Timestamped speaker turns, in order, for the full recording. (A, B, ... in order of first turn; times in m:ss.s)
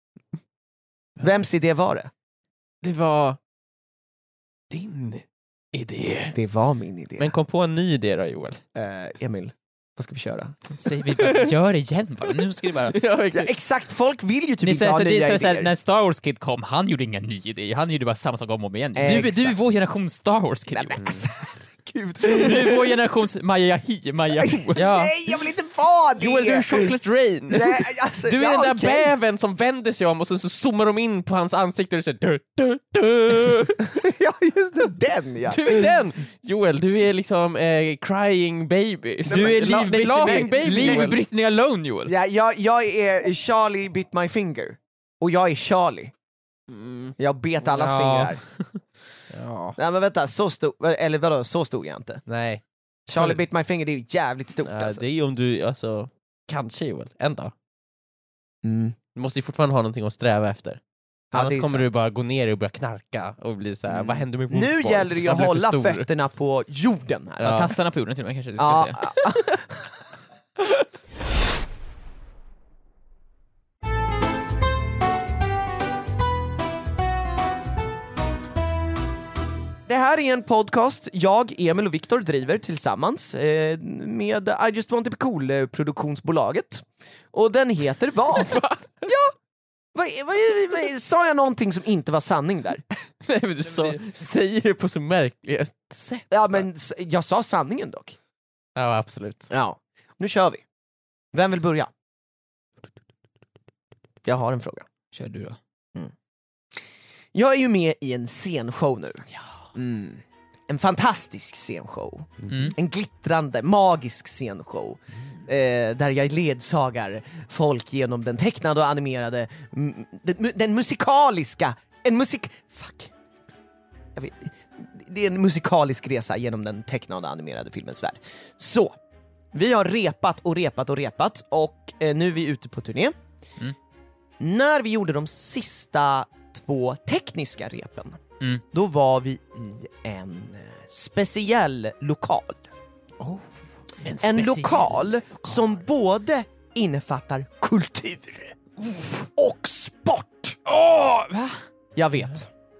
0:01.2-0:02.1 A
0:02.8-0:03.4 B
0:04.7-0:06.4 B
0:06.3-0:07.3 A
0:07.2-0:08.6 B
0:08.8-0:10.6 A
0:10.8-0:13.0 C
0:10.9-0:11.5 B
0:12.9-0:13.5 B
0:13.3-0:15.7 A
0:14.6-0:21.0 C
0:19.0-0:19.6 A
0:20.7-0:22.8 A
0:21.0-0:21.2 B
0:22.2-0:25.0 C
0:24.4-0:26.9 A
0:24.7-0:25.1 B
0:26.2-0:33.9 B
0:27.5-0:29.1 A
0:33.8-0:35.9 A
0:35.5-0:41.2 B
0:39.2-0:41.2 A
0:39.3-0:42.1 C
0:42.1-0:46.1 A
0:46.7-0:47.2 B
0:47.2-0:48.4 A
0:47.7-0:48.8 C
0:49.3-0:49.8 B
0:49.8-0:52.2 A
0:52.3-0:52.6 B
0:53.1-0:55.0 A
0:53.1-0:53.4 B
0:54.6-0:57.5 B
0:58.6-0:59.0 A
0:59.1-1:00.8 B
1:01.3-1:01.8 A
1:01.3-1:06.1 B
1:03.9-1:07.6 A
1:07.4-1:07.7 B
1:07.4-1:09.0 C
1:08.6-1:09.9 A
1:19.9-1:29.3 A
1:28.3-1:28.9 B
1:29.9-1:32.8 A
1:33.2-1:36.6 B
1:36.3-1:38.2 A
1:38.8-1:39.5 B
1:39.5-1:40.6 A
1:41.3-1:41.9 A
1:44.2-1:44.9 A
1:45.1-1:45.6 C
1:47.3-2:03.1 A
1:52.5-1:52.7 C
2:04.2-2:09.0 A
2:09.5-2:13.1 A
2:14.4-2:18.2 A
2:18.7-2:22.6 A
2:24.0-2:25.8 B
2:24.2-2:30.6 A
2:30.7-2:31.6 C
2:32.0-2:32.5 A